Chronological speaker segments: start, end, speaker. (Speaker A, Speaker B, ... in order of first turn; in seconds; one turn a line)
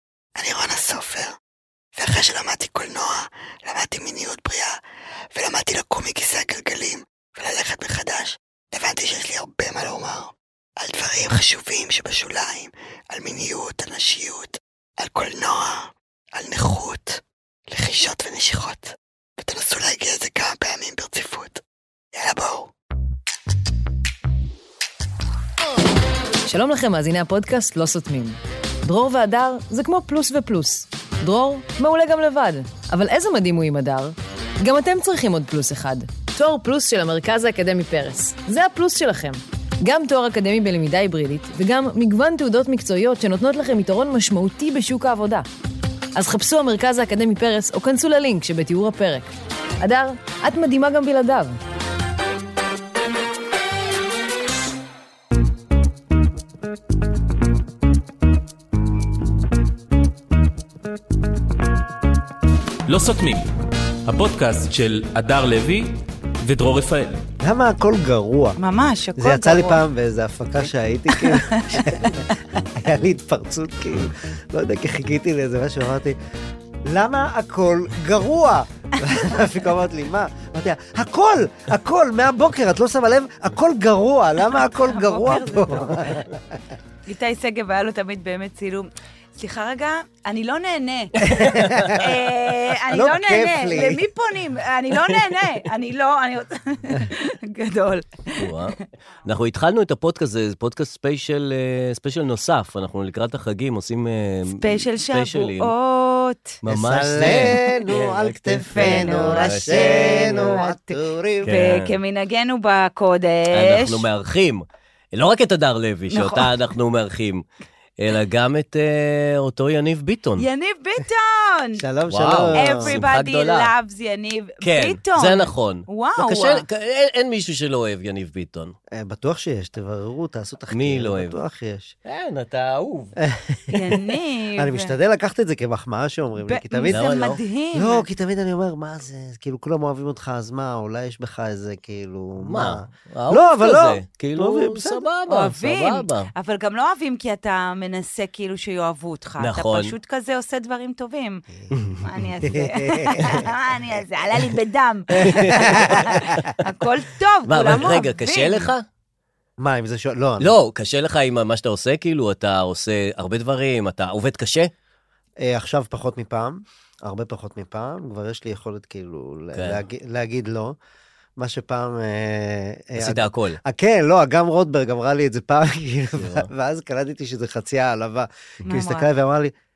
Speaker A: 0.4-1.4
Speaker A: 2.0-4.8
Speaker A: 5.3-21.6
Speaker A: 22.2-22.7
Speaker B: 26.4-45.5
Speaker B: 46.1-49.3
Speaker B: 49.8-51.6
Speaker C: 62.9-63.5
Speaker C: 64.1-67.2
Speaker D: 67.4-68.6
Speaker E: 68.6-69.8
Speaker D: 69.2-76.2
Speaker E: 71.1-72.4
Speaker D: 76.9-86.6
Speaker E: 84.6-86.1
Speaker E: 87.1-98.7
Speaker D: 91.4-92.1
Speaker D: 92.9-94.1
Speaker F: 98.4-105.7
Speaker E: 104.5-106.6
Speaker F: 106.6-110.6
Speaker D: 106.7-111.5
Speaker E: 108.7-114.1
Speaker F: 111.4-112.0
Speaker F: 113.5-117.4
Speaker E: 116.1-116.5
Speaker F: 118.0-120.5
Speaker E: 120.4-121.8
Speaker D: 121.8-123.0
Speaker F: 122.1-123.7
Speaker E: 122.6-126.6
Speaker F: 124.6-128.8
Speaker D: 128.9-131.9
Speaker F: 130.7-131.4
Speaker F: 132.1-133.1
Speaker D: 133.2-137.1
Speaker E: 133.7-134.9
Speaker E: 136.4-138.1
Speaker F: 136.9-137.4
Speaker D: 137.7-145.1
Speaker F: 142.4-146.3
Speaker E: 145.3-158.7
Speaker F: 149.4-149.9
Speaker D: 151.7-153.7
Speaker F: 155.1-156.4
Speaker D: 155.2-156.5
Speaker F: 157.5-158.8
Speaker D: 159.6-160.5
Speaker F: 160.4-164.7
Speaker D: 165.4-170.8
Speaker F: 169.5-169.8
Speaker D: 171.4-179.6
Speaker F: 173.0-173.6
Speaker F: 176.2-176.5
Speaker E: 178.7-179.1